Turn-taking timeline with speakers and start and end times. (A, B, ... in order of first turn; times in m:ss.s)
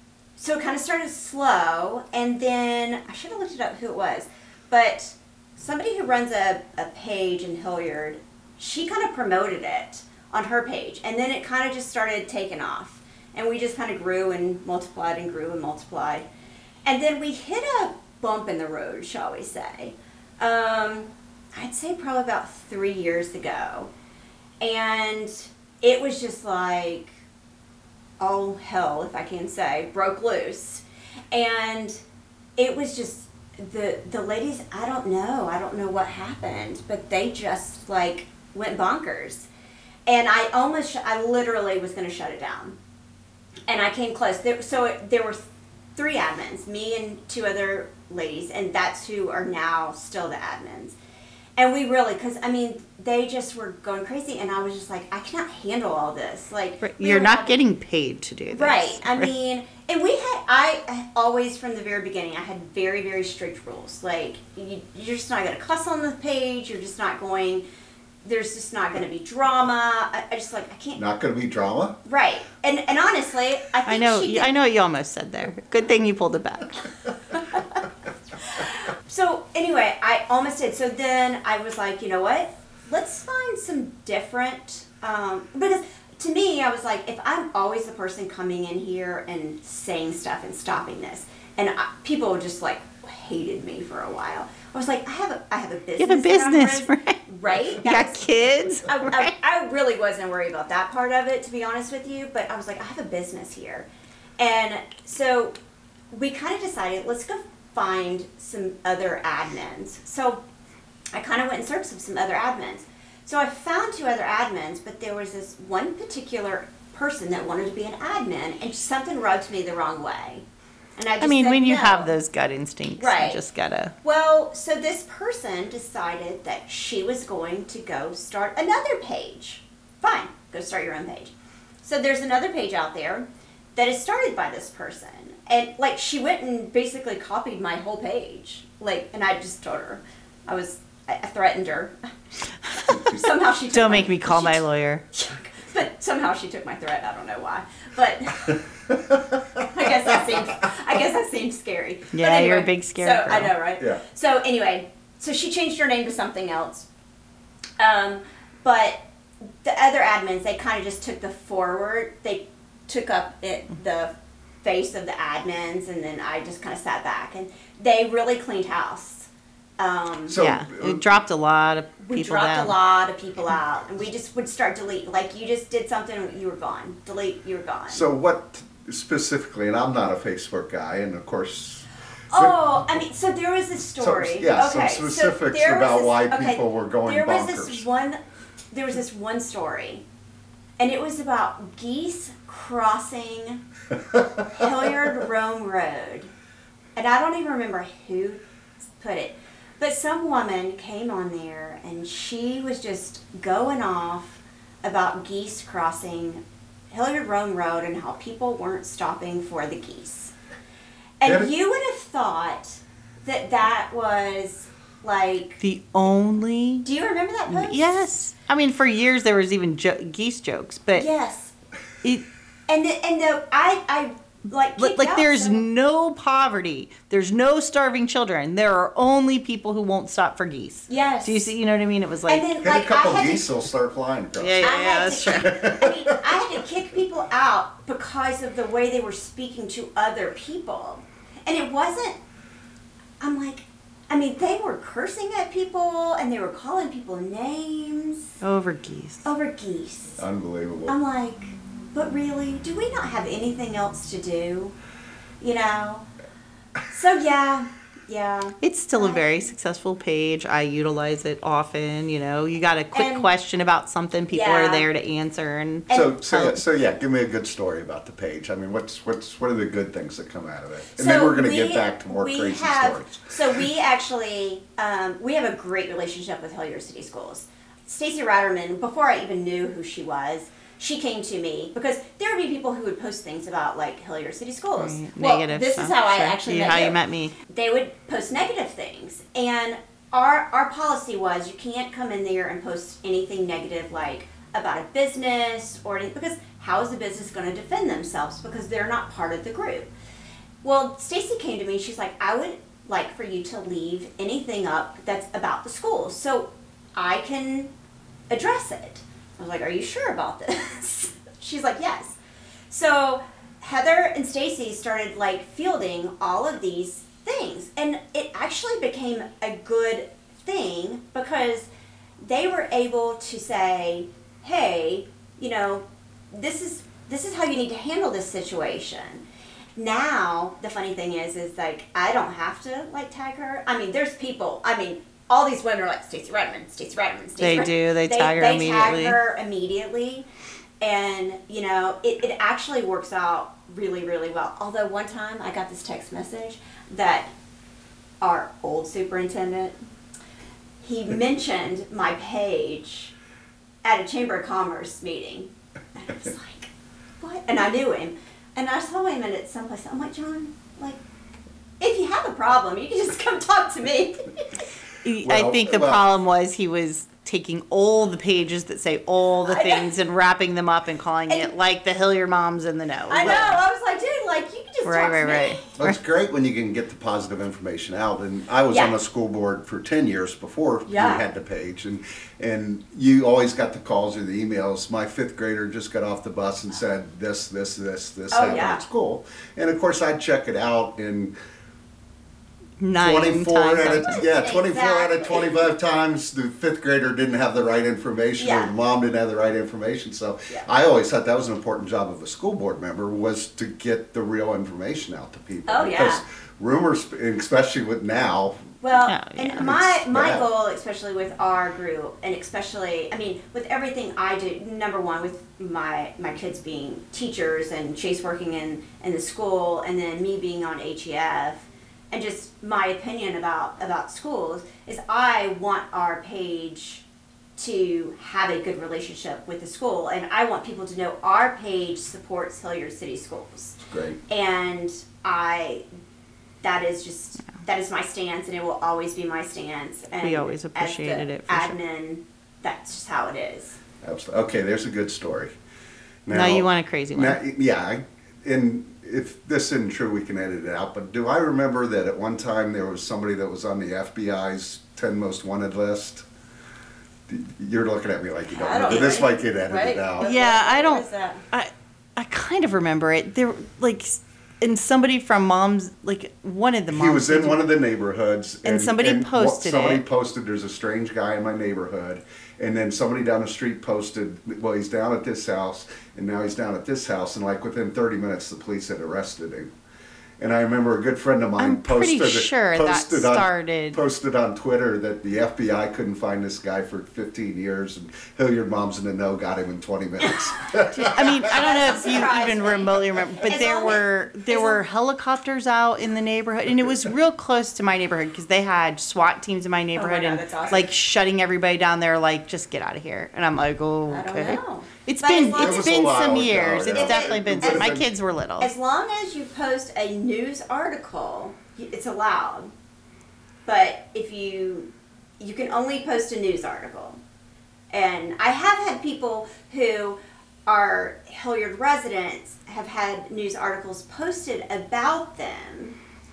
0:00.4-0:16.2 A
0:16.8-0:23.9 A
0:24.6-0:27.2 A
0:28.2-0:32.0 A
0:32.6-0:39.5 A
0:40.1-0:42.8 A
0:43.7-0:45.4 A
0:46.0-0:51.0 A
0:51.6-0:57.6 A
0:56.8-0:59.3 B
0:58.5-1:07.6 A
1:08.2-1:11.0 A
1:11.0-1:12.0 C
1:12.0-1:14.5 A
1:13.8-1:16.8 B
1:18.4-1:43.9 A
1:36.0-1:37.2 B
1:37.8-1:39.3 B
1:44.4-1:45.6 A
1:46.1-1:50.4 A
1:51.1-2:00.4 A
2:01.0-2:02.1 A
2:01.2-2:03.9 B
2:03.0-2:03.4 A
2:04.0-2:11.3 A
2:11.8-2:22.1 A
2:22.8-2:23.1 B
2:22.8-2:28.6 A
2:23.7-2:25.0 B
2:28.9-2:29.6 C
2:29.6-2:36.9 A
2:32.1-2:33.5 B
2:37.8-2:39.0 A
2:39.5-2:44.1 A
2:44.6-2:50.4 A
2:50.3-2:51.2 C
2:50.4-2:52.8 B
2:52.0-2:58.1 A
2:57.9-3:01.8 C
3:02.3-3:08.2 A
3:04.0-3:07.8 C
3:08.7-3:10.0 A
3:10.8-3:13.6 A
3:14.4-3:16.3 A
3:17.0-3:18.4 A
3:19.0-3:30.3 A
3:31.2-3:35.6 A
3:31.2-3:31.5 C
3:35.6-3:36.8 B
3:36.8-3:38.2 A
3:37.5-3:41.0 B
3:40.9-3:41.5 A
3:42.7-3:45.6 A
3:44.8-3:52.5 B
3:50.9-3:51.5 A
3:52.3-3:53.4 A
3:52.6-3:56.4 C
3:54.4-3:55.5 B
3:54.6-4:02.2 A
4:03.2-4:08.4 A
4:08.4-4:09.3 B
4:09.2-4:10.2 A
4:10.2-4:11.0 C
4:10.9-4:14.7 A
4:15.4-4:16.0 A
4:16.9-4:19.4 A
4:18.6-4:26.6 B
4:22.9-4:23.3 A
4:24.3-4:24.8 A
4:25.9-4:26.2 A
4:25.9-4:33.6 C
4:31.0-4:59.9 A
4:44.8-4:47.3 B
5:00.6-5:07.7 A
5:08.3-5:12.2 A
5:12.7-5:21.7 A
5:22.2-5:29.2 A
5:29.8-5:40.3 A
5:37.4-5:39.2 B
5:40.8-5:47.3 A
5:48.2-5:49.8 A
5:50.8-5:53.1 A
5:53.8-6:01.0 A
6:01.8-6:04.6 A
6:05.0-6:13.6 B
6:05.2-6:06.0 C
6:09.5-6:09.9 A
6:13.1-6:15.6 A
6:14.8-6:16.0 B
6:15.8-6:31.3 C
6:18.7-6:19.0 A
6:20.9-6:21.2 A
6:28.3-6:28.8 A
6:32.8-6:34.2 B
6:33.0-6:48.7 C
6:34.0-6:35.6 A
6:38.4-6:38.7 A
6:45.7-6:46.2 A
6:48.8-7:07.0 A
6:49.0-6:49.7 B
6:49.5-6:50.4 C
7:07.6-7:15.9 A
7:13.9-7:14.2 C
7:16.6-7:23.8 A
7:20.2-7:21.8 B
7:24.0-7:25.5 C
7:26.2-7:36.2 C
7:26.3-7:27.4 B
7:37.3-7:40.3 C
7:38.5-7:41.4 A
7:40.2-7:47.6 B
7:46.9-7:59.7 C
7:48.6-7:50.0 B
8:00.4-8:11.5 C
8:01.6-8:04.0 B
8:11.0-8:28.7 B
8:11.0-8:14.8 A
8:19.9-8:20.9 A
8:24.1-8:26.0 A
8:25.5-8:28.1 C
8:26.9-8:28.0 A
8:28.6-8:32.7 A
8:33.6-8:37.2 A
8:37.9-8:46.0 A